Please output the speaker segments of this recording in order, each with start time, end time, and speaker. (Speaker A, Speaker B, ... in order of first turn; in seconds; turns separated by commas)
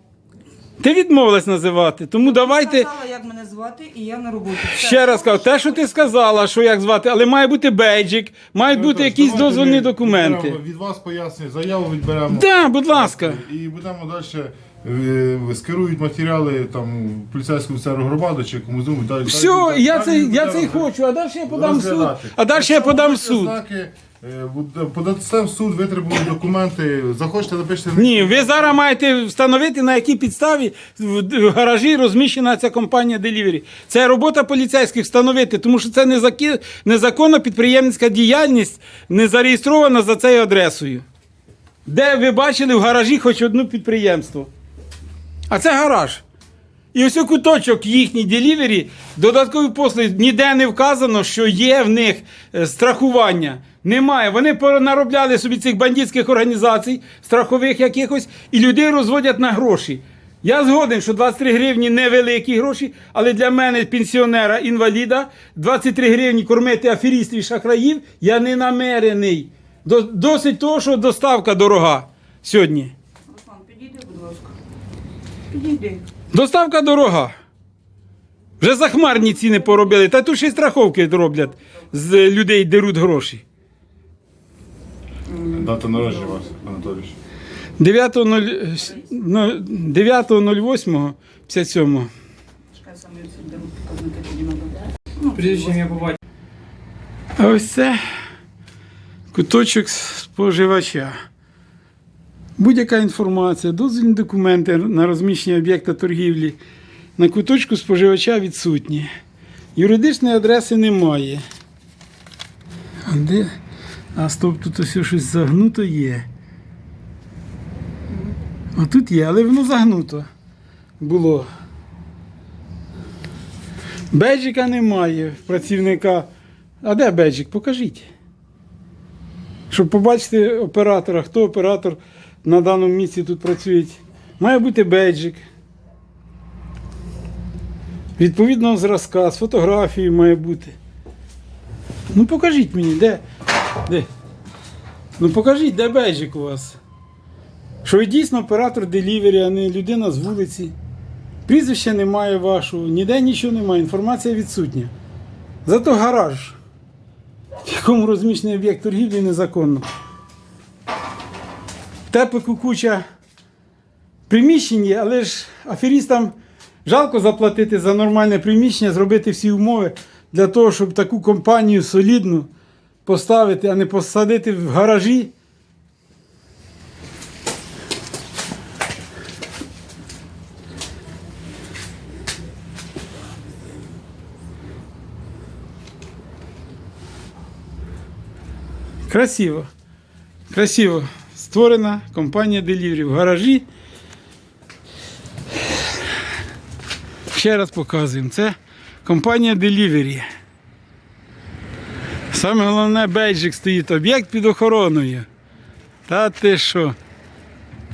Speaker A: 0.8-2.9, Speaker B: 2.2-6.2, Speaker A: 4.7-10.6, Speaker C: 8.7-20.9, Speaker A: 12.3-13.4, Speaker A: 19.2-23.6, Speaker C: 21.5-28.8, Speaker A: 27.9-41.0, Speaker A: 41.9-44.5, Speaker A: 45.5-46.2, Speaker A: 46.9-72.9, Speaker B: 73.3-74.5, Speaker B: 75.5-76.1, Speaker A: 76.3-77.3, Speaker A: 78.6-83.4, Speaker B: 79.1-80.0, Speaker B: 85.3-86.3, Speaker C: 85.5-87.2, Speaker A: 87.8-92.1, Speaker B: 92.7-96.2, Speaker A: 97.3-98.0, Speaker A: 99.3-101.1, Speaker A: 102.6-106.6, Speaker A: 107.2-109.1, Speaker A: 109.7-111.4, Speaker A: 113.0-113.5, Speaker A: 114.1-116.2, Speaker A: 118.7-120.2, Speaker A: 121.0-121.5, Speaker A: 124.1-126.3, Speaker A: 126.8-128.1, Speaker A: 129.7-135.4, Speaker A: 138.2-140.7, Speaker A: 142.1-143.2, Speaker A: 145.2-146.8, Speaker A: 147.8-150.7, Speaker A: 151.4-154.9, Speaker A: 155.7-156.6, Speaker A: 157.6-159.9, Speaker A: 162.1-163.0, Speaker A: 164.3-166.3, Speaker A: 166.8-172.5, Speaker A: 173.0-175.3, Speaker A: 189.1-189.7, Speaker A: 190.5-193.7, Speaker A: 197.3-200.2, Speaker A: 202.3-205.2, Speaker A: 206.1-206.9